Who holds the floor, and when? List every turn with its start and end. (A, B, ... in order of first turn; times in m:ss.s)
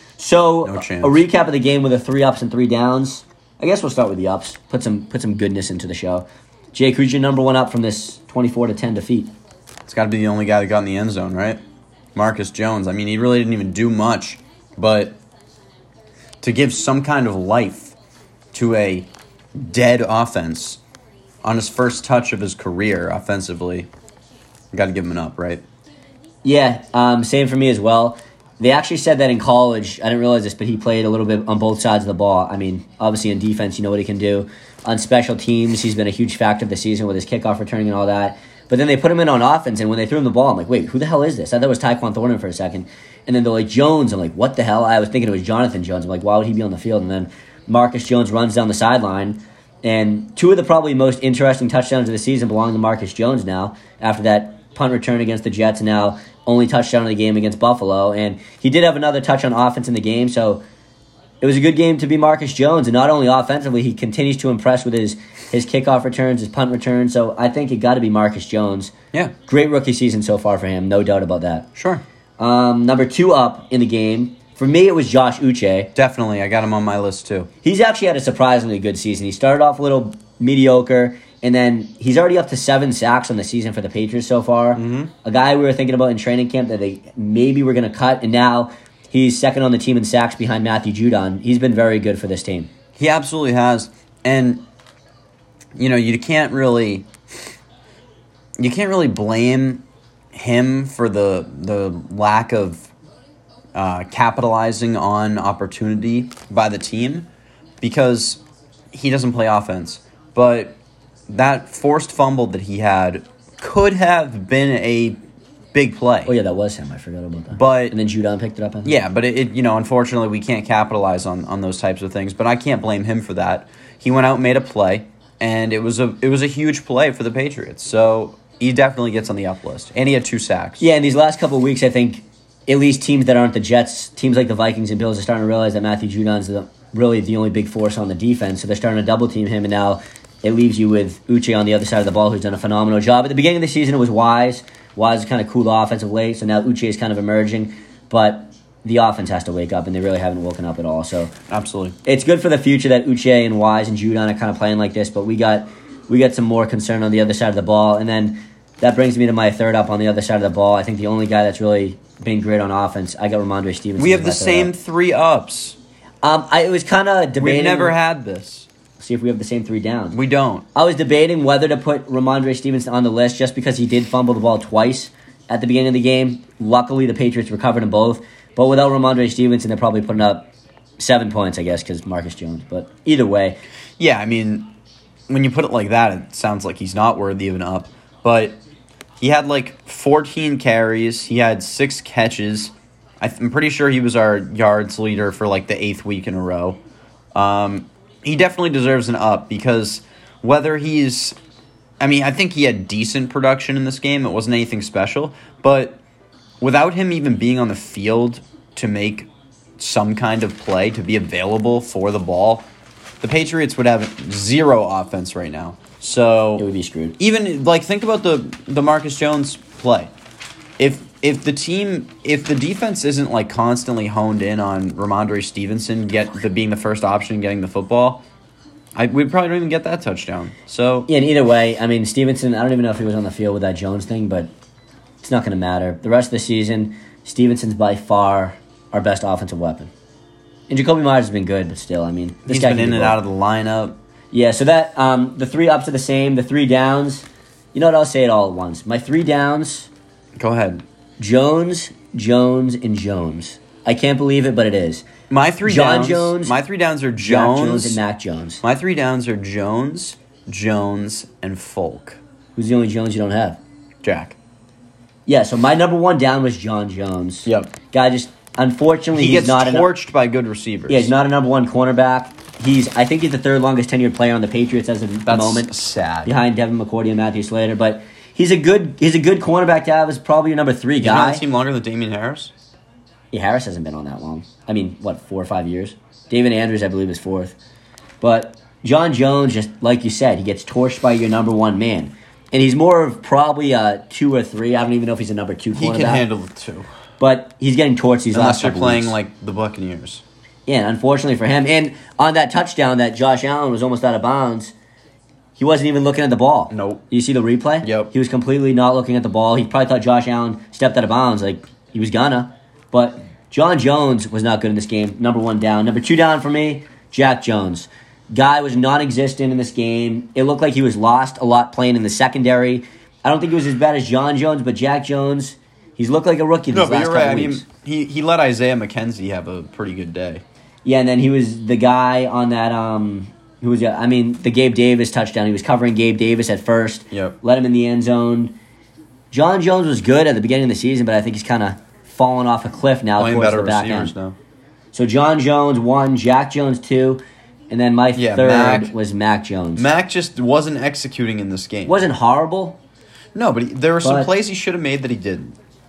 0:00.2-0:09.3 A
0:00.6-0:01.2 B
0:09.8-0:11.6 B
0:12.1-0:15.2 B
0:16.4-0:17.9 B
0:18.5-0:20.8 B
0:21.4-0:23.9 B
0:24.7-0:25.6 B
0:26.4-1:00.6 A
1:01.4-1:08.9 A
1:09.4-1:11.7 A
1:11.8-1:12.0 B
1:12.4-1:15.9 A
1:15.9-1:17.5 B
1:17.6-1:32.7 A
1:24.7-1:25.1 B
1:33.0-1:34.6 B
1:35.8-1:37.1 B
1:38.6-1:42.9 B
1:43.7-1:47.3 B
1:47.8-1:55.2 B
1:55.7-1:56.3 B
1:56.2-1:59.0 A
1:57.5-1:58.0 B
1:58.8-2:10.9 B
2:10.8-2:31.3 A
2:31.5-2:32.0 B
2:32.0-2:44.7 A
2:44.0-2:45.8 B
2:46.2-2:48.0 A
2:47.4-2:48.7 B
2:49.0-2:50.2 A
2:50.1-2:50.6 B
2:50.7-3:03.6 A
3:04.0-3:04.7 B
3:05.3-3:08.6 B
3:09.2-3:16.8 B
3:17.3-3:21.4 B
3:22.0-3:26.0 B
3:26.6-3:32.7 B
3:33.2-3:36.6 B
3:36.6-3:37.2 A
3:37.2-3:40.1 B
3:40.8-3:48.2 B
3:48.9-3:51.1 B
3:51.1-3:54.5 A
3:55.2-3:59.9 A
4:00.7-4:03.2 A
4:02.5-4:04.0 B
4:04.3-4:09.9 A
4:10.4-4:10.8 B
4:11.2-4:15.0 A
4:15.3-4:18.0 B
4:15.6-4:16.6 A
4:17.2-4:18.6 A
4:18.6-4:22.2 B
4:22.6-4:23.6 A
4:24.0-4:24.4 B
4:25.3-4:29.9 A
4:27.4-4:27.7 B
4:29.1-4:31.1 B
4:30.9-4:35.7 A
4:35.2-4:36.3 B
4:36.2-4:41.4 A
4:41.0-4:42.5 B
4:43.3-4:47.6 A
4:48.2-4:56.2 A
4:55.7-4:56.9 B
4:57.2-4:59.2 A
4:58.3-5:00.2 B
5:00.7-5:04.7 A
5:05.6-5:27.6 A
5:06.7-5:07.0 B
5:07.8-5:08.1 B
5:26.7-5:30.4 B
5:30.8-5:38.6 A
5:37.1-5:37.4 B
5:39.3-5:44.1 A
5:43.2-5:44.4 B
5:44.9-5:49.9 A
5:48.1-5:48.9 B
5:49.8-5:52.0 B
5:51.8-5:52.8 A
5:53.3-5:55.6 B
5:54.0-5:54.3 A